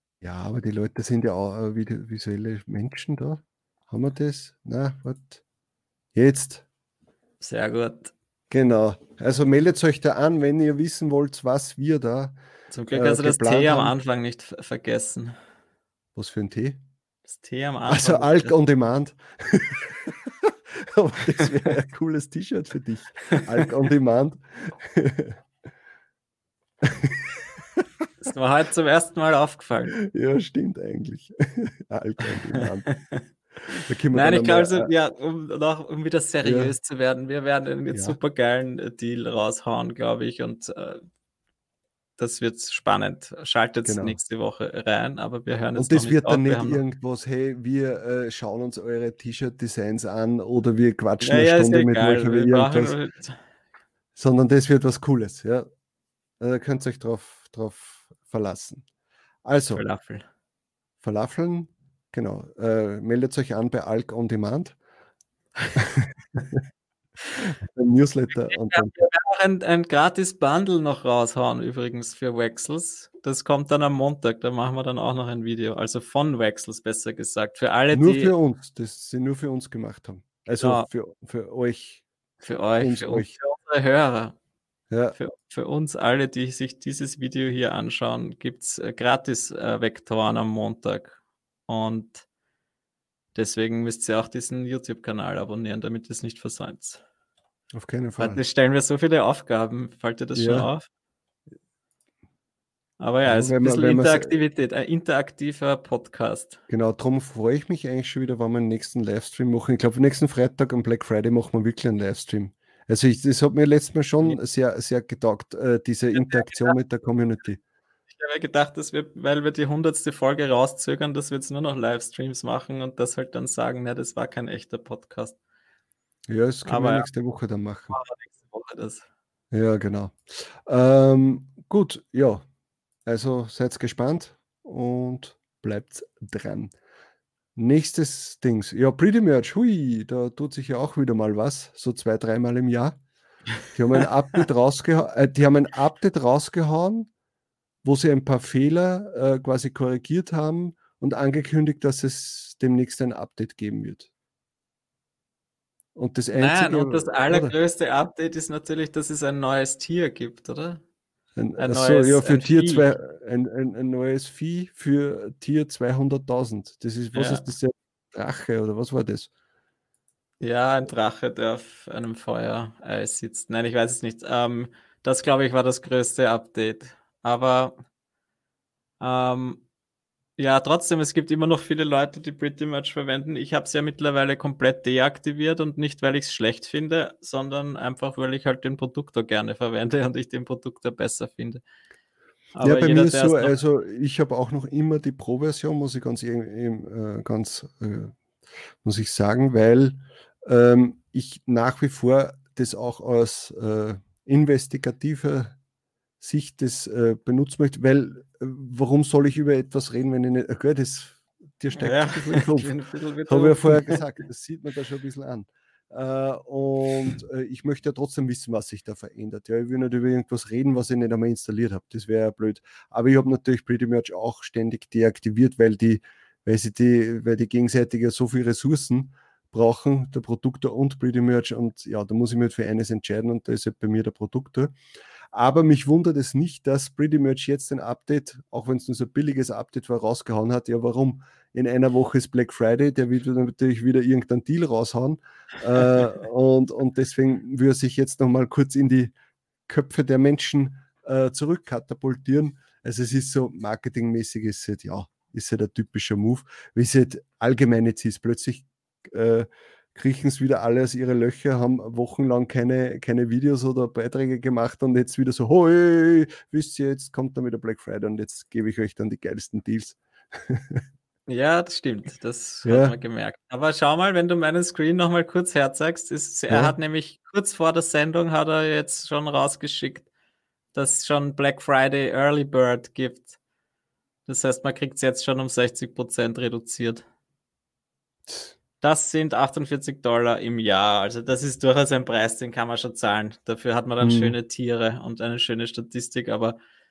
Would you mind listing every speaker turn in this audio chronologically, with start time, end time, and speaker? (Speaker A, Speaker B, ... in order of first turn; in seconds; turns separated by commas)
Speaker A: 0.2-5.4, Speaker A: 6.1-6.6, Speaker B: 7.4-8.1, Speaker A: 8.5-12.4, Speaker B: 12.7-15.4, Speaker A: 12.9-13.9, Speaker A: 16.2-16.8, Speaker B: 17.3-18.5, Speaker A: 17.9-25.4, Speaker A: 26.8-27.3, Speaker B: 28.2-29.9, Speaker A: 30.0-32.9, Speaker B: 32.9-33.2, Speaker A: 33.9-34.9, Speaker B: 34.1-41.0, Speaker A: 36.4-36.7, Speaker A: 37.9-38.2, Speaker B: 42.2-46.8, Speaker A: 43.8-44.2, Speaker A: 45.7-53.0, Speaker B: 51.2-53.4, Speaker A: 54.2-55.7, Speaker A: 56.4-58.8, Speaker A: 59.5-59.8, Speaker B: 59.7-60.3, Speaker A: 61.0-64.8, Speaker A: 65.8-66.6, Speaker A: 67.4-69.0, Speaker B: 68.3-78.3, Speaker A: 77.9-82.0, Speaker B: 80.6-80.9, Speaker B: 82.4-84.4, Speaker A: 82.8-83.3, Speaker A: 84.9-85.2, Speaker B: 85.2-92.2, Speaker B: 93.3-97.0, Speaker A: 97.7-98.4, Speaker B: 98.2-100.9, Speaker A: 100.3-100.7, Speaker B: 103.0-106.6, Speaker A: 103.2-104.3, Speaker A: 106.7-117.6, Speaker B: 116.1-116.8, Speaker B: 118.1-125.4, Speaker A: 126.3-128.0, Speaker B: 126.7-127.1, Speaker B: 127.9-129.1, Speaker A: 129.5-132.4, Speaker A: 133.1-136.7, Speaker A: 137.6-143.0, Speaker A: 143.7-147.1, Speaker A: 147.8-154.1, Speaker A: 155.9-157.5, Speaker B: 156.3-160.8, Speaker A: 161.4-169.3, Speaker B: 161.6-162.9, Speaker B: 167.1-167.4, Speaker B: 170.4-177.7, Speaker B: 179.0-179.6, Speaker B: 180.4-191.6, Speaker B: 192.6-193.6, Speaker A: 192.6-198.1, Speaker A: 198.8-205.6, Speaker A: 206.2-212.7, Speaker B: 211.7-214.0, Speaker A: 213.3-234.7, Speaker A: 235.3-249.1, Speaker A: 249.7-270.8, Speaker B: 271.3-280.1, Speaker A: 272.6-272.9, Speaker A: 276.5-276.7, Speaker B: 280.7-283.4, Speaker B: 284.3-287.0, Speaker A: 288.3-288.5, Speaker B: 288.8-296.6, Speaker A: 294.0-294.4